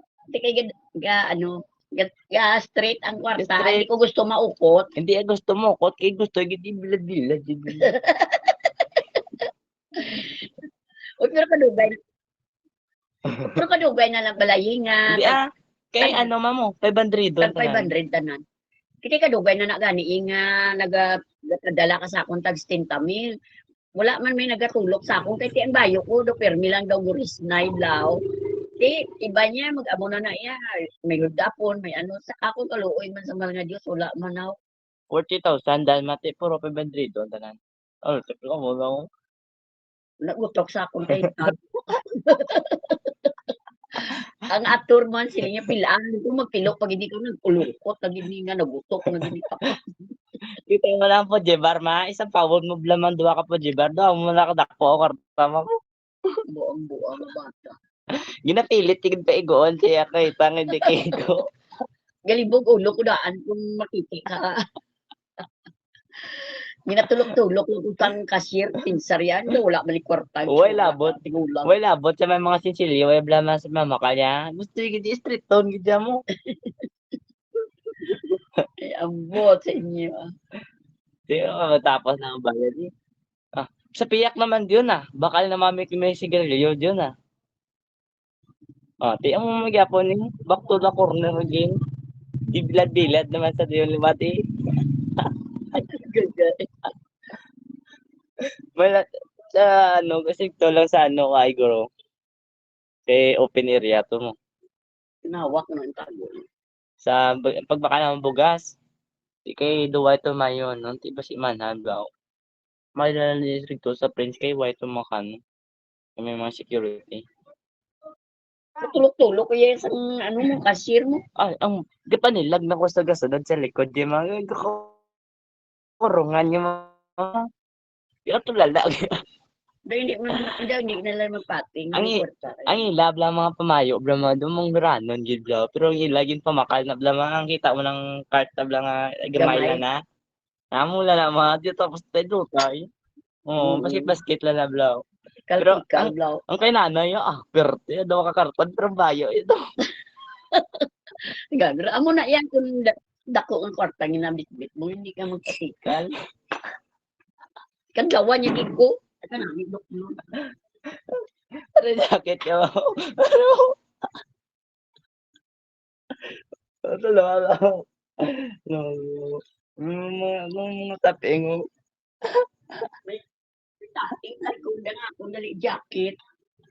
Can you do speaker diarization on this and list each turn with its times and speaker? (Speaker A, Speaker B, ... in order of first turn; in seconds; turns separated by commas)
Speaker A: 0.3-4.9, Speaker B: 3.4-3.9, Speaker B: 5.0-7.9, Speaker A: 7.8-9.1, Speaker A: 10.0-10.4, Speaker A: 11.2-12.0, Speaker A: 13.5-15.4, Speaker B: 15.1-15.4, Speaker B: 15.9-17.9, Speaker A: 16.0-16.3, Speaker A: 17.4-18.4, Speaker A: 19.0-23.3, Speaker A: 24.0-28.2, Speaker A: 28.8-34.6, Speaker B: 35.1-39.0, Speaker A: 40.2-43.3, Speaker A: 44.5-49.9, Speaker B: 50.7-55.7, Speaker A: 56.5-57.8, Speaker B: 58.5-61.5, Speaker A: 62.3-64.6, Speaker A: 66.2-71.7, Speaker B: 70.5-76.2, Speaker A: 76.4-76.9, Speaker A: 78.8-80.2, Speaker B: 81.3-82.9, Speaker B: 83.6-87.1, Speaker B: 89.0-91.8, Speaker B: 92.5-94.3, Speaker B: 95.2-96.5, Speaker A: 95.8-96.4, Speaker B: 98.8-101.9, Speaker B: 103.1-104.4, Speaker A: 105.3-106.4, Speaker B: 107.0-108.7, Speaker B: 109.5-112.1, Speaker B: 113.0-115.4, Speaker B: 116.2-117.2, Speaker A: 118.8-121.2, Speaker B: 121.4-124.9, Speaker B: 126.0-127.4, Speaker B: 128.3-129.1, Speaker A: 129.9-132.8, Speaker B: 131.9-140.0, Speaker A: 139.4-139.8, Speaker B: 140.8-142.9, Speaker B: 143.5-145.0, Speaker A: 143.6-144.2, Speaker A: 145.5-146.4, Speaker B: 145.6-149.6, Speaker A: 150.5-150.8, Speaker A: 151.5-156.1, Speaker A: 157.9-160.2, Speaker B: 161.8-163.7, Speaker B: 166.9-167.7, Speaker B: 168.3-171.6, Speaker A: 173.8-176.2